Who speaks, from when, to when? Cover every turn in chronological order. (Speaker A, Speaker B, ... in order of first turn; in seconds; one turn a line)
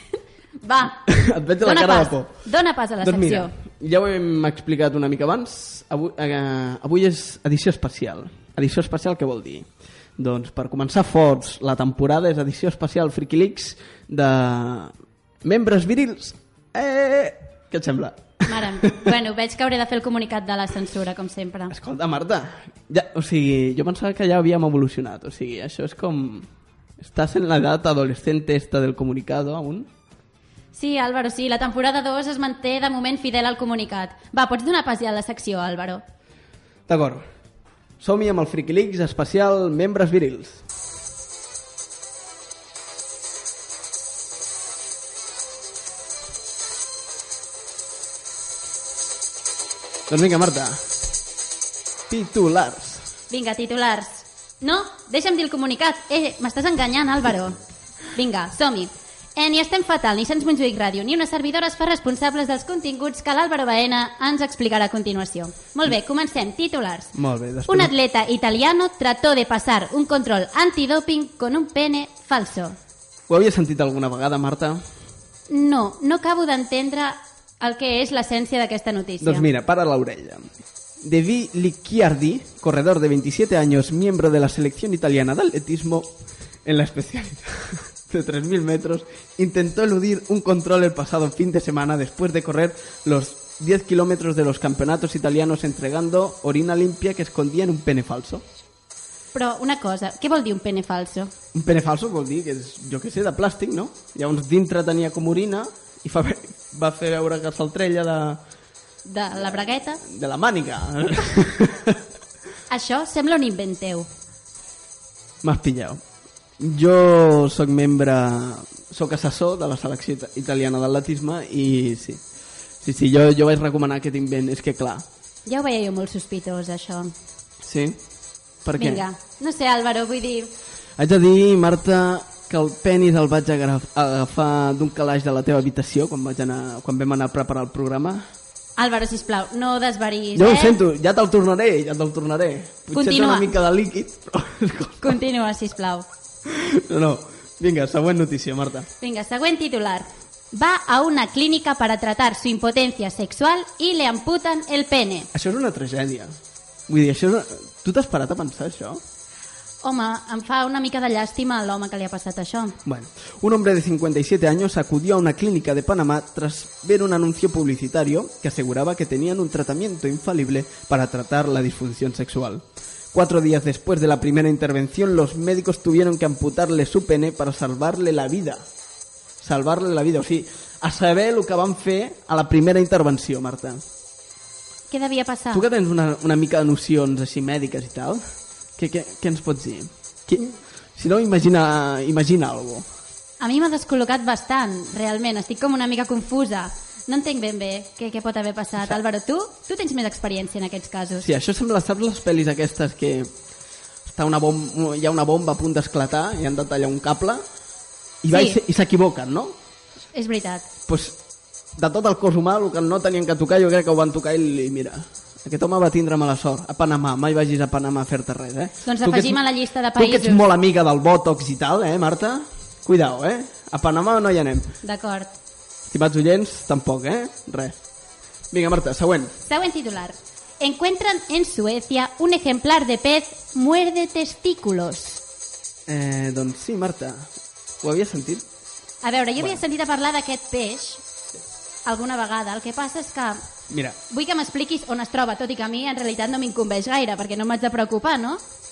Speaker A: 0.6-1.1
Speaker B: 1.1-2.5
Speaker A: 1.6-3.5
Speaker B: 3.0-14.9
Speaker B: 15.4-19.1
Speaker A: 18.4-21.7
Speaker B: 21.7-26.5
Speaker B: 27.0-29.9
Speaker A: 30.7-36.0
Speaker B: 36.9-37.2
Speaker B: 38.0-40.6
Speaker B: 50.1-50.8
Speaker B: 52.1-53.0
Speaker A: 53.3-57.6
Speaker A: 58.1-67.1
Speaker B: 67.1-67.9
Speaker A: 67.7-72.8
Speaker B: 73.3-74.8
Speaker A: 75.5-79.5
Speaker B: 79.2-98.4
Speaker A: 99.3-101.3
Speaker B: 101.5-108.4
Speaker A: 109.0-110.0
Speaker B: 110.0-112.0
Speaker A: 112.7-114.1
Speaker B: 115.4-116.0
Speaker B: 116.6-122.2
Speaker B: 122.8-125.0
Speaker A: 125.5-127.1
Speaker B: 127.6-128.0
Speaker B: 128.6-129.0
Speaker A: 128.8-130.5
Speaker B: 131.0-138.2
Speaker A: 138.8-140.8
Speaker B: 140.3-145.2
Speaker A: 142.9-143.5
Speaker A: 145.0-146.1
Speaker B: 146.4-148.9
Speaker A: 149.0-155.3
Speaker B: 155.3-156.4
Speaker B: 156.9-159.0
Speaker A: 159.8-162.8
Speaker B: 162.8-178.7
Speaker B: 179.4-183.8
Speaker A: 184.9-185.6
Speaker B: 185.5-192.9
Speaker A: 193.4-201.3
Speaker B: 201.2-203.3
Speaker B: 204.1-207.4
Speaker B: 208.2-209.6
Speaker A: 208.3-208.6
Speaker A: 210.1-210.7
Speaker B: 210.9-211.2
Speaker B: 211.8-219.4
Speaker A: 218.8-220.4
Speaker B: 219.9-224.7
Speaker A: 224.8-225.3
Speaker B: 225.9-227.7
Speaker B: 228.5-229.3
Speaker A: 229.4-235.2
Speaker B: 235.9-237.3
Speaker B: 237.8-238.4
Speaker A: 239.0-241.0
Speaker A: 241.8-243.5
Speaker B: 243.7-244.0
Speaker A: 244.1-248.4